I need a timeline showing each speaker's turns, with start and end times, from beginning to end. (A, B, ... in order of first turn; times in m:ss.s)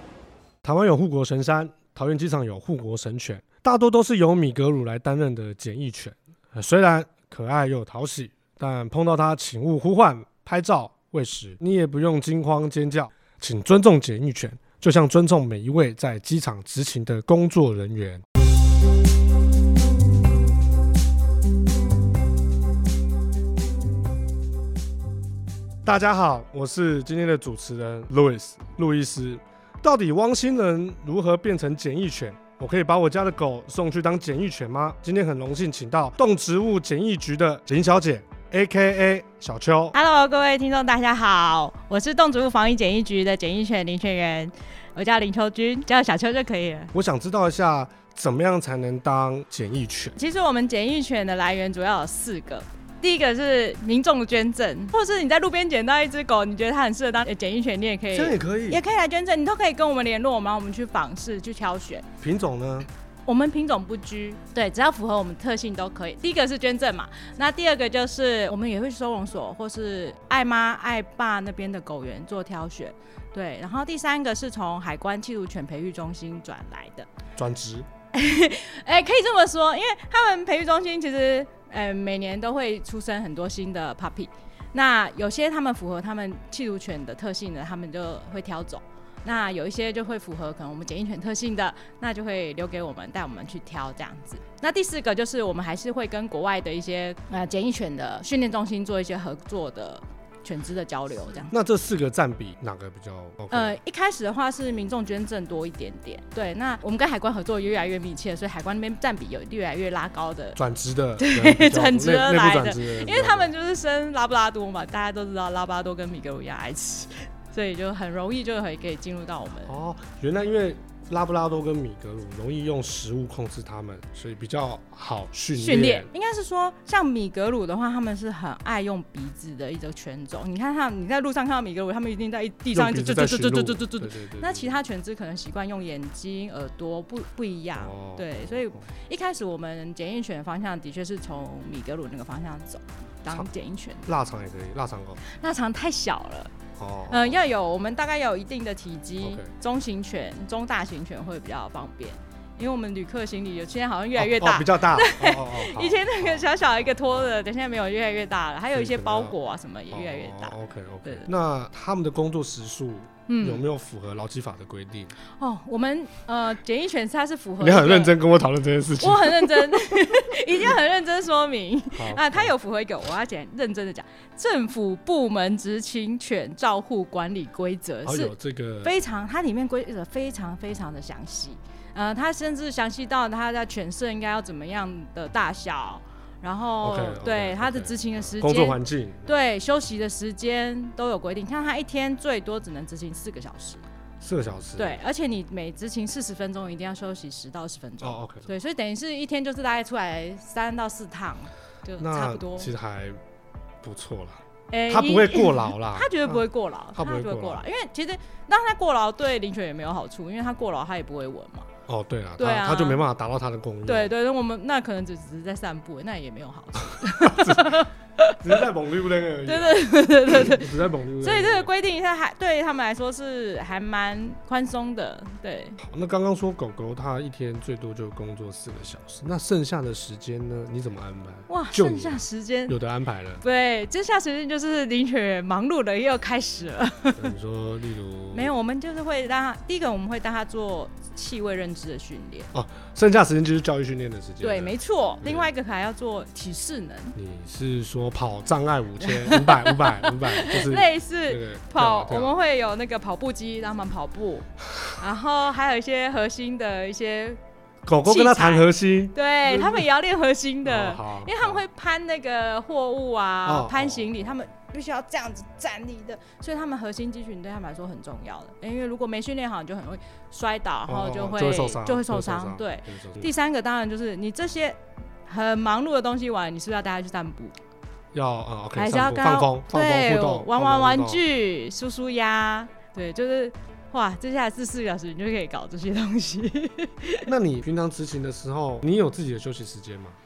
0:00.6-0:18.2 A
0:25.8-0:40.0 A
0:39.9-0:46.9 B
0:46.9-0:50.2 A
0:50.2-1:02.0 B
0:58.1-0:58.8 A
1:02.2-1:02.9 A
1:03.2-1:17.1 B
1:17.4-1:17.9 A
1:18.1-1:41.5 B
1:41.5-1:43.8 A
1:43.5-1:50.6 B
1:50.6-1:53.5 A
1:51.2-1:59.7 B
1:59.6-2:06.1 A
2:05.5-2:24.1 B
2:12.7-2:14.8 A
2:17.8-2:18.8 A
2:24.0-2:25.2 A
2:25.2-2:26.5 B
2:26.8-2:27.4 A
2:27.1-2:41.3 B
2:29.2-2:29.5 A
2:34.2-2:37.3 A
2:38.7-2:39.3 A
2:39.9-2:45.1 A
2:43.3-2:43.6 B
2:45.4-2:48.2 B
2:47.6-2:49.9 A
2:49.0-3:13.8 B
2:51.9-2:52.5 A
2:58.0-2:58.9 A
3:06.8-3:09.3 A
3:14.2-3:15.0 A
3:14.8-3:22.7 B
3:18.0-3:18.5 A
3:22.0-3:23.2 A
3:23.8-3:27.6 A
3:24.7-3:31.7 B
3:31.9-3:34.1 A
3:32.4-3:33.0 B
3:33.8-3:38.6 B
3:37.0-3:37.9 A
3:38.4-3:41.7 A
3:39.4-3:45.8 B
3:45.8-3:53.4 A
3:51.5-3:52.8 B
3:53.4-3:57.3 B
3:57.2-3:58.5 A
3:58.3-4:02.5 B
4:02.5-4:05.5 A
4:04.4-4:07.2 B
4:07.1-4:12.3 A
4:09.0-4:17.4 B
4:17.8-4:19.9 A
4:18.0-4:37.5 B
4:20.6-4:21.6 A
4:23.4-4:24.3 A
4:30.9-4:33.3 A
4:38.1-4:41.2 A
4:38.8-4:47.3 B
4:47.3-4:50.2 A